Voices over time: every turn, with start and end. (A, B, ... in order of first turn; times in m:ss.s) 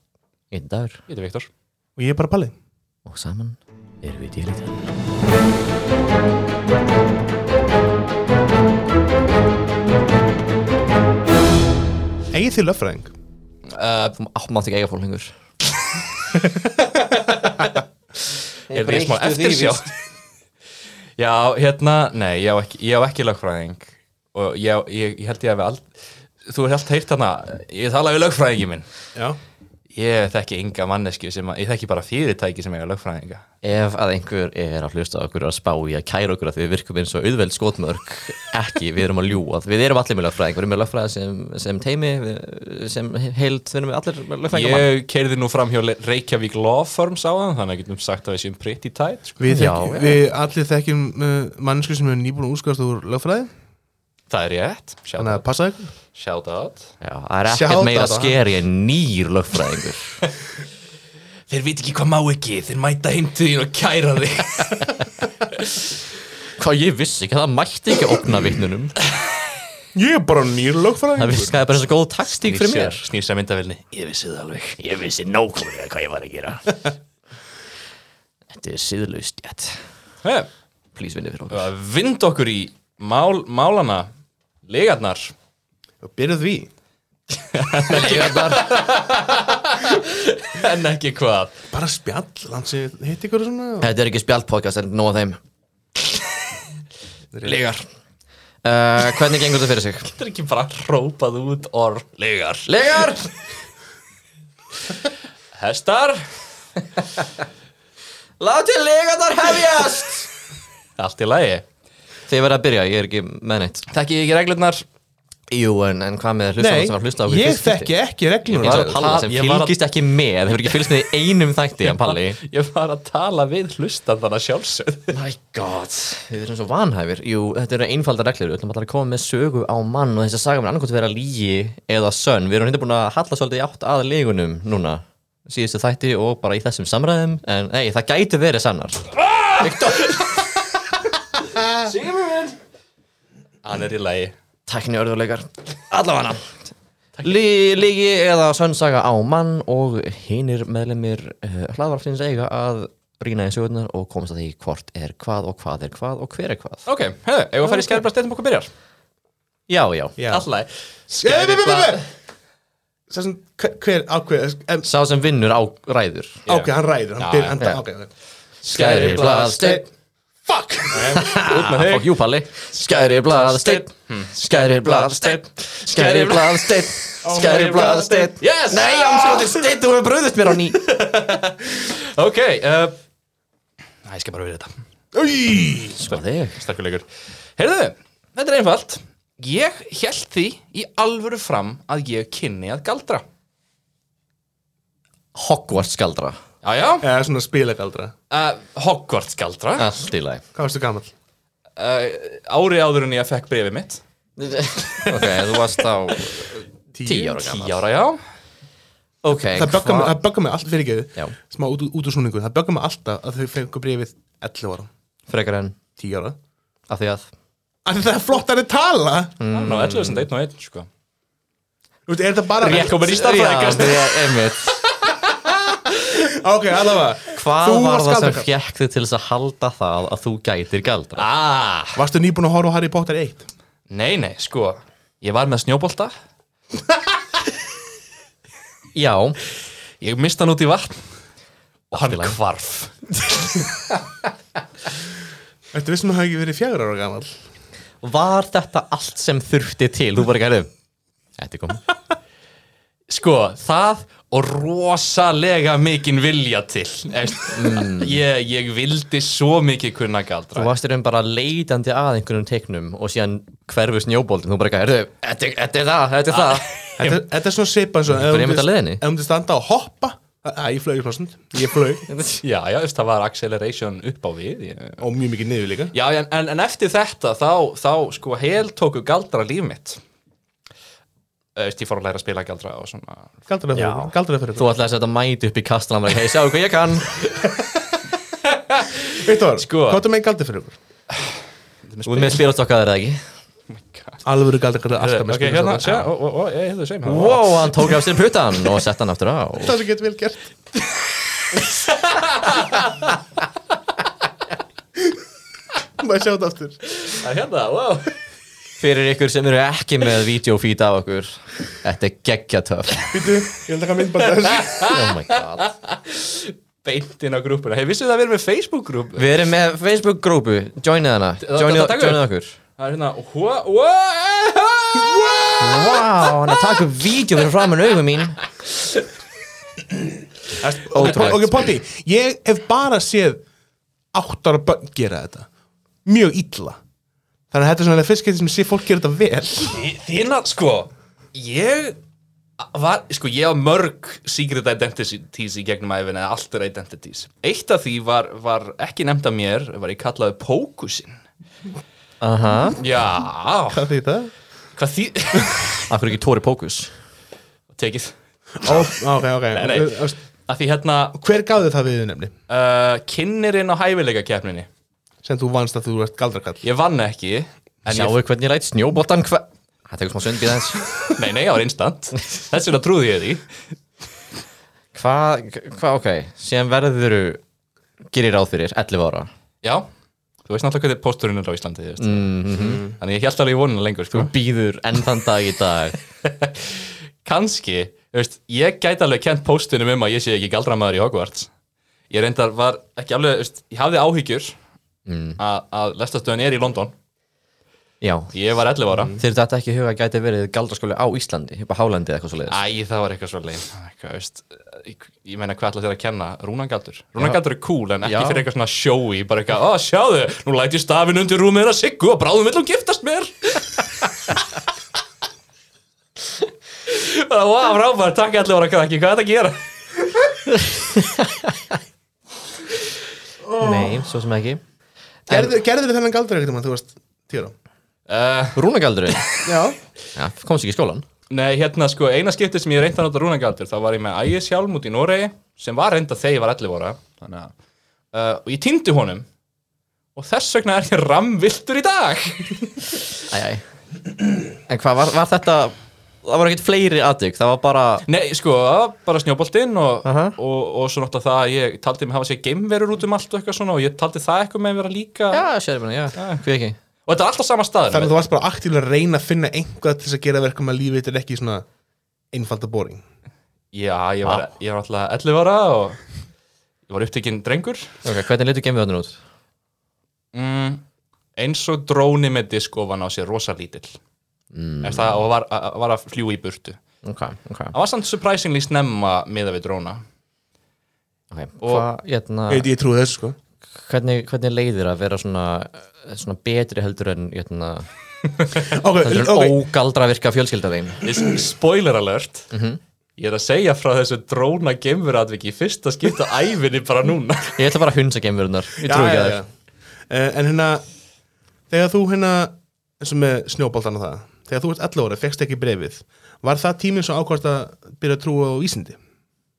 0:00.5-0:01.0 A
0:01.1-0:01.5 B
0:02.0-0:02.5 C
0:03.0-0:04.8 A
0:12.3-0:13.1 C
0:13.7-0:14.1 B
0:14.1-0:15.3 A
0:16.9-0:17.7 B
0:18.7-0:19.8 A
0:18.7-0:19.9 B
0:21.2-0:25.9 B
0:26.4-0:28.9 B
0:29.9-0:33.4 B
0:33.6-0:44.9 A
0:44.5-0:49.4 B
0:49.4-0:53.5 C
0:49.5-0:50.2 A
0:54.3-0:55.4 B
0:55.2-0:55.9 C
0:56.1-0:56.9 B
0:57.0-1:00.2 A
0:57.5-0:58.4 C
1:01.5-1:05.8 B
1:06.6-1:08.9 A
1:09.9-1:11.7 C
1:11.2-1:13.0 A
1:12.4-1:14.8 B
1:14.8-1:16.8 A
1:18.5-1:19.8 A
1:21.0-1:21.7 A
1:21.5-1:24.1 B
1:24.7-1:25.3 B
1:26.0-1:26.7 C
1:27.4-1:31.5 B
1:27.9-1:28.7 A
1:31.7-1:33.9 C
1:33.8-1:35.4 A
1:37.5-1:37.7 A
1:38.6-1:40.1 A
1:40.1-1:42.7 B
1:42.7-1:43.3 A
1:45.5-1:47.1 B
1:48.4-1:50.3 A
1:51.0-1:51.6 B
1:52.3-1:53.9 A
1:53.9-1:54.8 B
1:55.5-1:57.9 A
1:56.6-1:59.2 C
1:58.5-1:59.8 B
1:58.5-2:02.4 A
2:00.6-2:01.1 B
2:01.8-2:05.1 B
2:05.1-2:20.3 A
2:19.2-2:20.4 B
2:21.6-2:22.6 B
2:23.6-2:24.3 B
2:24.7-2:26.6 A
2:27.2-2:36.8 A
2:36.8-2:38.7 B
2:39.7-2:40.2 A
2:40.2-2:40.5 C
2:40.3-2:42.0 B
2:41.2-2:42.0 C
2:43.1-2:44.9 C
2:44.8-2:46.4 A
2:46.4-2:47.6 B
2:46.5-2:48.1 C
2:48.6-2:49.8 A
2:48.7-2:49.5 B
2:48.8-2:49.8 C
2:50.4-2:51.2 C
2:50.9-2:56.8 B
2:51.0-3:00.8 A
2:57.2-2:58.3 C
2:58.4-2:59.6 B
3:00.8-3:03.0 B
3:04.0-3:04.7 B
3:05.1-3:06.0 C
3:06.0-3:06.6 A
3:06.1-3:07.0 B
3:07.6-3:13.2 B
3:15.3-3:16.4 A
3:16.6-3:17.1 B
3:17.0-3:18.1 C
3:18.3-3:19.9 B
3:19.8-3:20.4 A
3:20.5-3:21.1 C
3:21.8-3:24.0 B
3:24.4-3:27.8 A
3:26.9-3:27.4 C
3:27.2-3:28.2 B
3:29.2-3:30.2 A
3:29.5-3:34.9 C
3:35.3-3:35.8 A
3:36.0-3:36.4 C
3:36.9-3:37.3 A
3:37.8-3:39.4 C
3:39.4-3:40.3 A
3:39.5-3:40.9 B
3:42.1-3:43.2 C
3:42.6-3:45.4 B
3:42.9-3:44.8 A
3:46.0-3:48.5 C
3:47.3-3:51.2 A
3:51.2-3:52.0 B
3:51.9-3:53.5 C
3:53.9-3:56.1 B
3:58.9-3:59.4 A
4:00.0-4:01.0 B
4:01.9-4:03.1 B
4:01.9-4:02.3 A
4:05.7-4:07.3 C
4:08.0-4:10.7 A
4:11.4-4:11.8 A
4:13.1-4:20.7 B
4:17.5-4:18.2 A
4:20.5-4:26.7 A
4:26.3-4:27.2 B
4:27.0-4:32.0 C
4:28.1-4:29.0 A
4:32.1-4:32.4 A
4:32.4-4:35.0 B
4:35.0-4:36.0 C
4:35.9-4:40.0 B
4:41.6-4:43.3 B
4:43.5-4:44.7 C
4:43.7-4:47.2 A
4:48.4-4:50.0 B
4:49.2-4:50.8 C
4:51.9-4:52.5 B
4:52.0-4:53.2 A
4:53.7-4:54.2 B
4:54.2-4:56.1 C
4:55.0-4:57.9 B
4:57.0-4:59.8 A
4:59.6-5:00.5 C
5:01.7-5:03.0 B
5:06.0-5:06.8 C
5:06.9-5:08.1 B
5:08.8-5:13.2 A
5:13.1-5:14.9 C
5:14.2-5:19.2 B
5:14.8-5:15.7 A
5:19.2-5:22.6 A
5:21.4-5:22.2 B
5:22.8-5:26.4 B
5:25.6-5:28.4 A
5:30.6-5:33.4 C
5:30.9-5:31.7 A
5:34.1-5:35.5 C
5:36.0-5:36.8 C
5:37.5-5:39.8 C
5:39.7-5:42.0 B
5:42.6-5:51.1 B
5:52.2-5:52.8 A
5:52.8-5:53.8 B
5:53.7-5:54.3 C
5:54.8-5:55.9 B
5:55.9-5:56.9 A
5:57.7-5:58.9 B
5:58.6-6:00.2 C
5:59.5-6:01.2 B
6:01.2-6:02.3 C
6:02.5-6:04.7 B
6:05.2-6:06.6 C
6:06.6-6:08.2 B
6:07.9-6:10.9 A
6:11.1-6:13.5 B
6:14.9-6:17.4 A
6:18.1-6:19.3 A
6:19.6-6:19.9 B
6:20.4-6:24.3 B
6:22.0-6:22.8 A
6:22.6-6:22.9 C
6:24.1-6:26.0 A
6:26.2-6:31.5 B
6:32.1-6:34.6 B
6:35.1-6:35.4 A
6:35.4-6:36.9 B
6:38.0-6:38.3 A
6:38.3-6:39.2 B
6:39.1-6:42.6 A
6:42.5-6:54.4 B
6:48.0-6:48.4 A
6:56.8-6:59.6 B
7:00.5-7:01.8 A
7:03.5-7:04.0 C
7:03.5-7:04.6 A
7:05.3-7:07.5 C
7:08.1-7:08.6 B
7:08.6-7:09.3 A
7:09.4-7:09.8 C
7:10.2-7:11.0 A
7:11.3-7:17.5 B
7:18.1-7:19.2 B
7:20.2-7:22.8 B
7:23.3-7:23.6 A
7:24.7-7:28.0 A
7:28.1-7:35.4 B
7:30.0-7:30.4 A
7:35.3-7:36.8 A
7:36.2-7:36.4 B
7:37.0-7:38.1 B
7:37.9-7:41.6 C
7:42.3-7:43.0 C
7:43.7-7:46.0 B
7:46.9-7:47.9 B
7:48.0-7:49.2 A
7:50.3-7:50.8 B
7:51.4-7:54.0 B
7:54.5-7:55.2 A
7:54.8-7:56.8 B
7:57.0-7:57.7 A
7:57.7-8:00.0 B
8:01.3-8:02.7 A
8:01.6-8:01.9 B
8:02.5-8:03.4 C
8:03.8-8:07.9 A
8:08.6-8:09.6 C
8:09.0-8:11.1 A
8:11.0-8:12.5 B
8:12.5-8:12.8 A
8:13.2-8:17.6 B
8:17.6-8:19.4 A
8:18.8-8:19.5 C
8:20.1-8:20.8 C
8:21.7-8:29.0 C